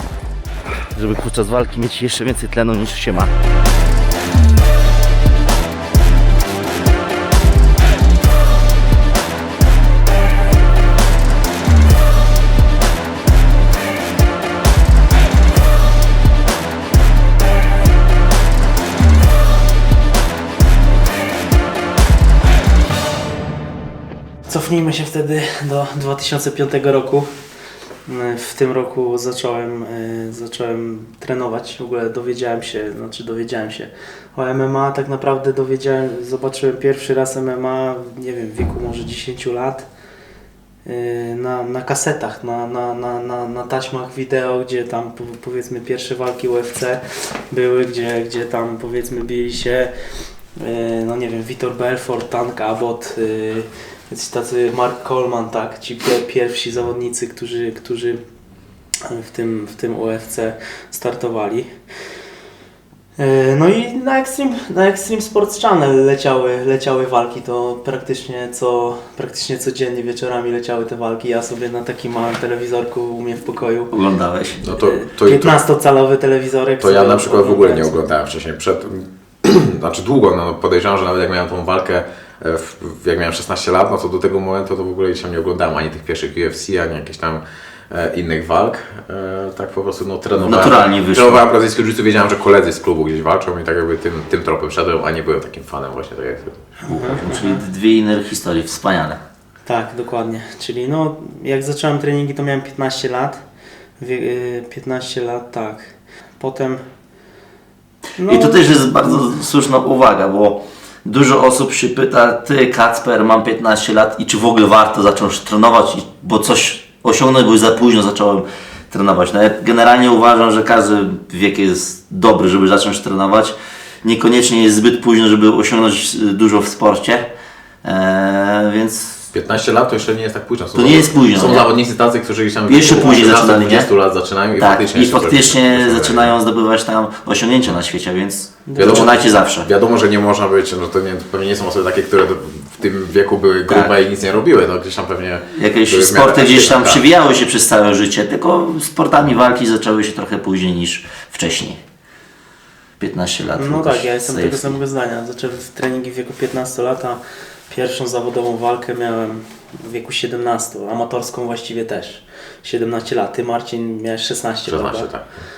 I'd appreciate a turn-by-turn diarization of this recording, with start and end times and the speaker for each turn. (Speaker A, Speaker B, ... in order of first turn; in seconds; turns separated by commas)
Speaker A: 0.7-3.3, Speaker B: 24.5-27.3, Speaker B: 28.1-39.9, Speaker B: 40.9-49.9, Speaker B: 50.5-58.2, Speaker B: 59.0-61.7, Speaker B: 63.2-73.9, Speaker A: 73.9-74.6, Speaker C: 74.6-75.6, Speaker B: 74.7-78.0, Speaker C: 76.8-96.6, Speaker A: 90.4-91.4, Speaker B: 96.8-97.6, Speaker A: 96.8-99.2, Speaker B: 99.7-103.4, Speaker B: 104.0-106.8, Speaker B: 108.2-109.3, Speaker A: 108.3-127.2, Speaker A: 127.8-129.3, Speaker C: 129.3-136.3, Speaker A: 130.7-131.7, Speaker A: 132.7-133.9, Speaker A: 134.6-139.7, Speaker B: 138.7-139.1, Speaker C: 138.8-147.0, Speaker A: 145.5-151.8, Speaker A: 153.0-154.8, Speaker B: 153.6-165.1, Speaker C: 164.7-165.3